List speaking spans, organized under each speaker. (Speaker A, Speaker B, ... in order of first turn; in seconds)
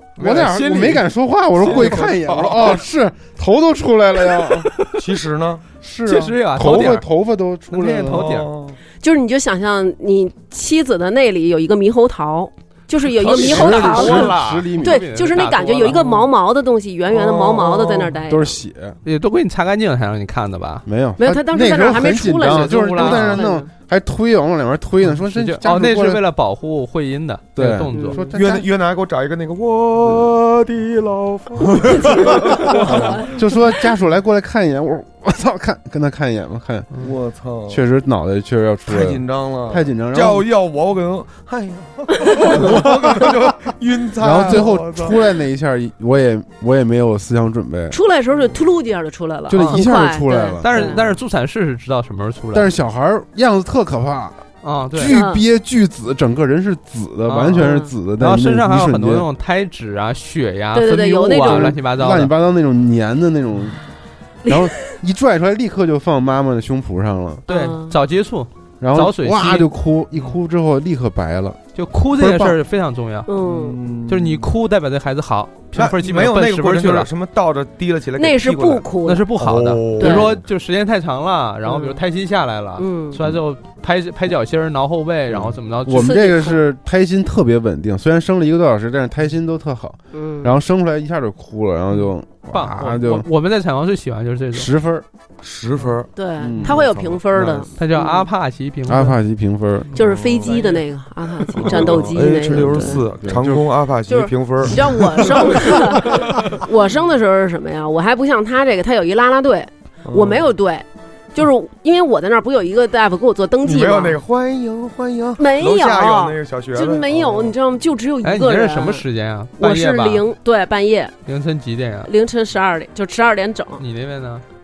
Speaker A: 0.2-1.1, 1.6-2.1, 6.0-7.0, 7.7-8.5, 13.1-16.2, 19.0-20.8, 22.4-23.5, 25.1-28.2, 49.5-49.8, 50.6-52.7, 54.6-55.2, 57.2-62.3, 67.5-70.3, 71.7-73.3, 74.1-77.1, 79.0-86.1, 92.5-94.7, 97.8-99.2, 100.5-100.8, 118.2-120.2, 121.2-122.1, 123.8-124.4
Speaker B: 0.2-4.7, 5.8-8.3, 13.3-15.1, 18.3-19.0, 20.8-26.2, 27.6-28.7, 32.8-36.9, 37.7-40.4, 44.2-48.0, 49.5-51.0, 52.5-54.4, 54.9-59.3, 61.4-63.8, 64.5-67.4, 68.8-71.6, 72.2-72.6, 85.8-93.3, 94.5-95.0, 96.4-96.8, 98.9-99.9, 102.4-103.7
Speaker C: 1.6-2.8, 5.0-5.6, 8.0-8.8, 17.1-18.1, 28.3-33.4, 37.0-37.8, 38.9-45.2, 73.4-74.5, 75.7-78.9, 79.4-80.4, 95.4-97.7, 100.0-100.6, 101.5-106.6, 110.0-110.5, 113.6-117.5
Speaker D: 9.0-18.6, 21.2-23.7, 27.9-28.3, 31.9-33.2, 47.9-51.0, 55.0-55.4, 57.6-57.9, 60.7-61.7, 67.5-67.9, 73.3-73.8, 78.2-79.3, 80.0-80.3, 81.6-82.0, 82.8-83.2, 85.9-86.6, 90.1-90.5, 96.1-98.2, 99.9-103.0, 104.1-114.2, 115.4-119.0, 119.6-121.1, 122.0-123.8